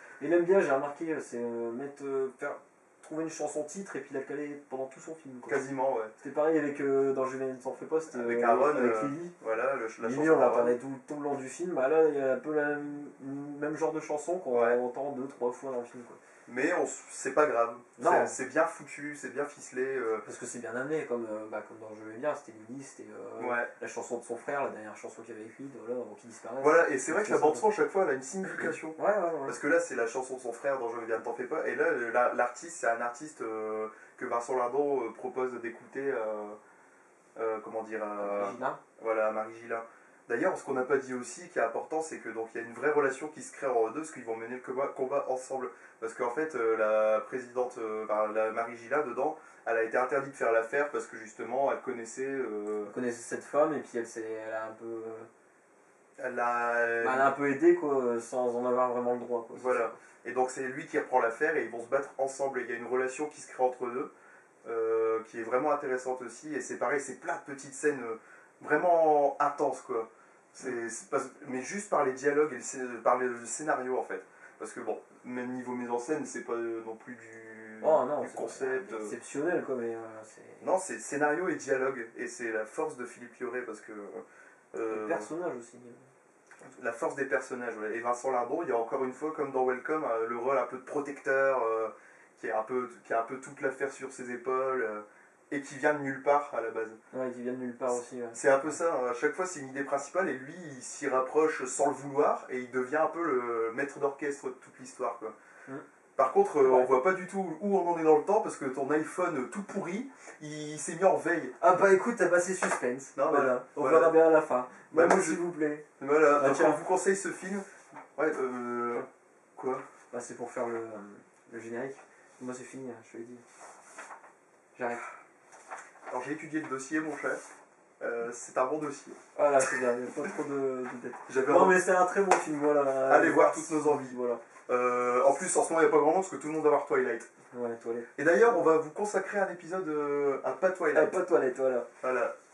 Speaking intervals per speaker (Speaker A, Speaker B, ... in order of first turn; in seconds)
Speaker A: 0.2-5.6, 6.2-9.3, 10.0-16.2, 18.0-18.4, 20.2-27.7, 28.4-29.6, 38.2-38.8, 52.8-55.3, 57.0-60.0, 77.8-80.7, 84.9-86.0, 97.1-98.8, 106.6-106.9, 111.6-116.8, 120.1-123.4, 124.7-125.1, 129.3-134.4, 137.5-138.3, 140.9-141.9
Speaker B: 5.5-6.1, 8.1-10.8, 14.5-14.8, 16.4-20.2, 23.4-23.7, 26.6-36.6, 37.4-52.9, 56.2-57.3, 59.5-64.1, 64.6-79.2, 80.6-85.3, 86.6-97.0, 98.3-105.3, 106.2-111.5, 113.1-114.2, 114.9-115.4, 116.0-119.8, 126.1-127.4, 128.0-129.2, 131.3-131.8, 133.0-137.3, 138.1-141.2, 142.0-142.3